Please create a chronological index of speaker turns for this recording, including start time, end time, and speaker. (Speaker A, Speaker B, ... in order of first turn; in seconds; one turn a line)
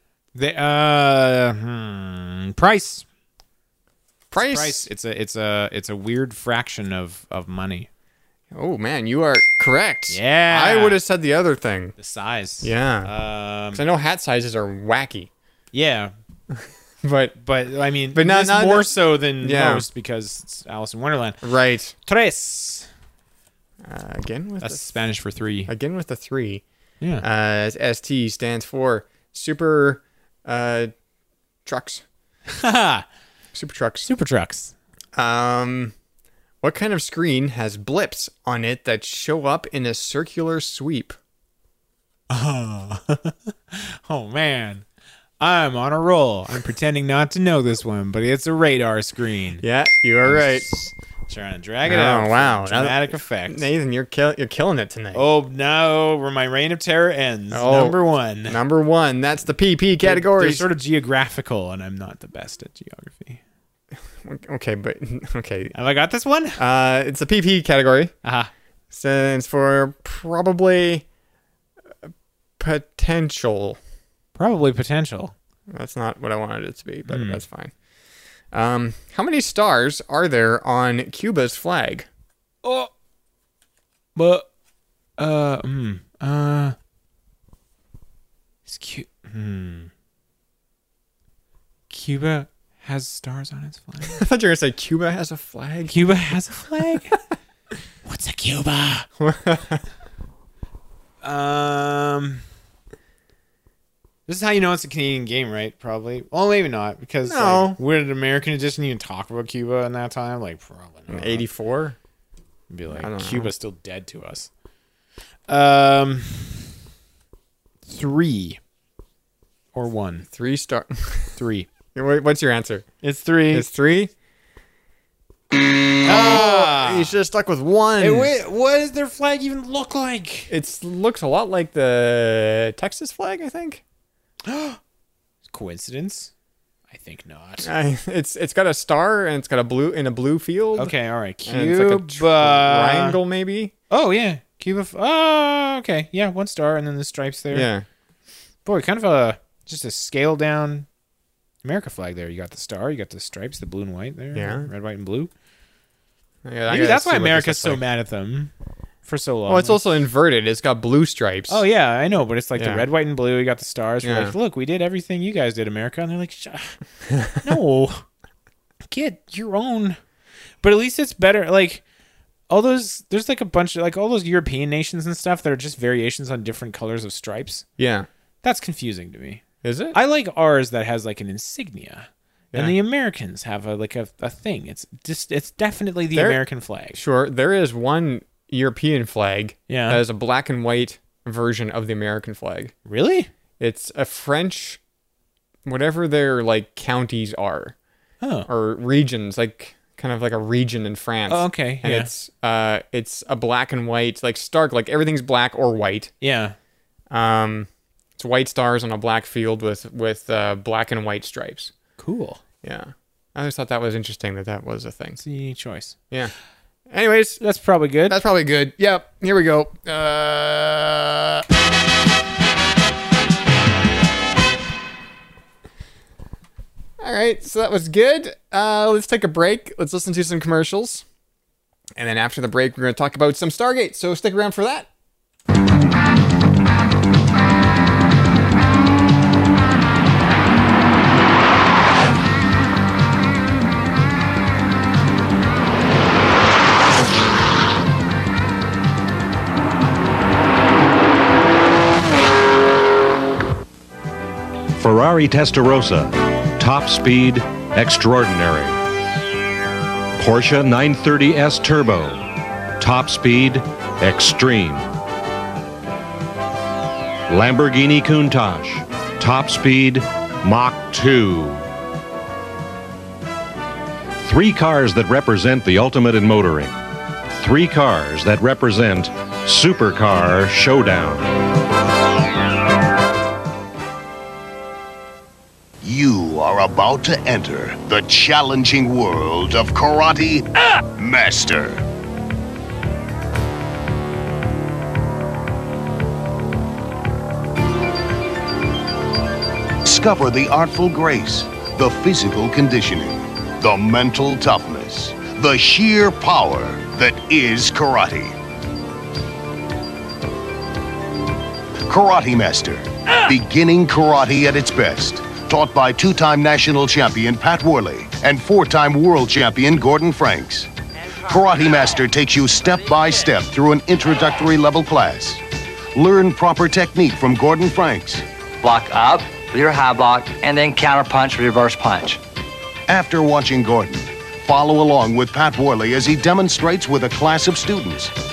Speaker A: 0.3-3.0
Speaker B: 4.3-4.9
Speaker A: 4.4-7.9
Speaker B: 8.5-11.9
Speaker A: 10.1-11.0
Speaker A: 12.0-13.8
Speaker B: 12.6-13.1
Speaker B: 13.7-15.3
Speaker A: 15.7-16.1
Speaker B: 17.0-17.3
Speaker A: 17.4-21.4
Speaker B: 18.1-19.9
Speaker B: 21.4-21.9
Speaker A: 22.0-22.9
Speaker B: 23.8-25.0
Speaker A: 24.6-25.7
Speaker B: 25.7-26.6
Speaker B: 27.2-30.9
Speaker B: 31.6-32.0
Speaker A: 32.5-33.0
Speaker B: 33.5-34.1
Speaker A: 34.0-34.7
Speaker B: 35.1-35.9
Speaker B: 36.6-41.2
Speaker A: 42.3-44.8
Speaker A: 45.4-49.6
Speaker B: 49.6-50.7
Speaker A: 50.2-53.7
Speaker B: 51.8-55.2
Speaker A: 55.1-58.6
Speaker B: 57.5-60.7
Speaker A: 60.0-63.4
Speaker B: 64.2-65.7
Speaker A: 65.7-66.6
Speaker B: 66.5-68.1
Speaker A: 68.2-68.5
Speaker B: 68.9-71.0
Speaker B: 72.6-73.8
Speaker A: 74.3-75.3
Speaker B: 75.7-77.7
Speaker A: 77.1-77.4
Speaker B: 78.5-82.1
Speaker A: 82.6-82.9
Speaker A: 84.1-84.5
Speaker A: 85.2-86.8
Speaker A: 88.7-89.9
Speaker A: 91.9-94.2
Speaker B: 94.0-96.1
Speaker A: 95.9-97.2
Speaker A: 98.0-99.1
Speaker B: 99.2-99.8
Speaker A: 101.2-102.4
Speaker A: 104.3-111.5
Speaker B: 107.3-107.8
Speaker B: 111.1-112.0
Speaker A: 112.7-114.5
Speaker B: 112.9-113.5
Speaker A: 115.5-116.7
Speaker A: 117.9-118.6
Speaker A: 119.7-120.3
Speaker B: 120.3-121.4
Speaker A: 121.4-121.7
Speaker B: 121.9-122.9
Speaker A: 123.0-123.7
Speaker B: 123.5-124.1
Speaker B: 126.0-128.4
Speaker A: 126.0-127.2
Speaker A: 128.0-130.5
Speaker B: 130.5-133.8
Speaker A: 134.4-134.8
Speaker A: 135.4-136.3
Speaker A: 136.9-137.7
Speaker B: 137.6-140.9
Speaker A: 140.8-143.2
Speaker B: 141.4-143.7
Speaker A: 143.9-147.7
Speaker B: 147.5-147.9
Speaker A: 148.6-150.9
Speaker A: 151.6-155.3
Speaker B: 154.3-154.7
Speaker B: 156.4-157.8
Speaker A: 156.7-158.5
Speaker A: 159.1-159.8
Speaker B: 159.5-161.6
Speaker A: 161.5-166.8
Speaker B: 162.6-162.8
Speaker B: 164.0-164.3
Speaker B: 167.1-167.4
Speaker A: 167.4-168.1
Speaker A: 168.8-170.0
Speaker A: 170.6-171.8
Speaker A: 172.5-177.6
Speaker B: 177.8-178.1
Speaker A: 178.4-187.0
Speaker B: 179.6-180.0
Speaker B: 186.1-186.4
Speaker B: 186.9-192.7
Speaker A: 189.7-190.0
Speaker A: 192.8-193.3
Speaker B: 193.6-194.8
Speaker B: 195.6-197.7
Speaker A: 198.2-198.5
Speaker B: 198.4-206.1
Speaker A: 201.3-202.1
Speaker A: 206.2-206.6
Speaker B: 207.1-211.7
Speaker A: 212.0-212.4
Speaker B: 212.6-215.2
Speaker A: 215.2-215.9
Speaker B: 216.9-217.4
Speaker A: 217.4-218.2
Speaker B: 218.1-221.4
Speaker B: 227.0-231.0
Speaker B: 231.9-234.9
Speaker C: 254.7-258.8
Speaker C: 260.2-262.3
Speaker C: 262.8-264.9
Speaker C: 267.3-271.7
Speaker C: 274.2-276.8
Speaker C: 277.3-281.3
Speaker D: 285.8-291.8
Speaker D: 299.8-308.4
Speaker D: 311.9-320.7
Speaker D: 321.3-325.4
Speaker D: 325.9-328.2
Speaker E: 328.6-332.2
Speaker D: 332.9-338.1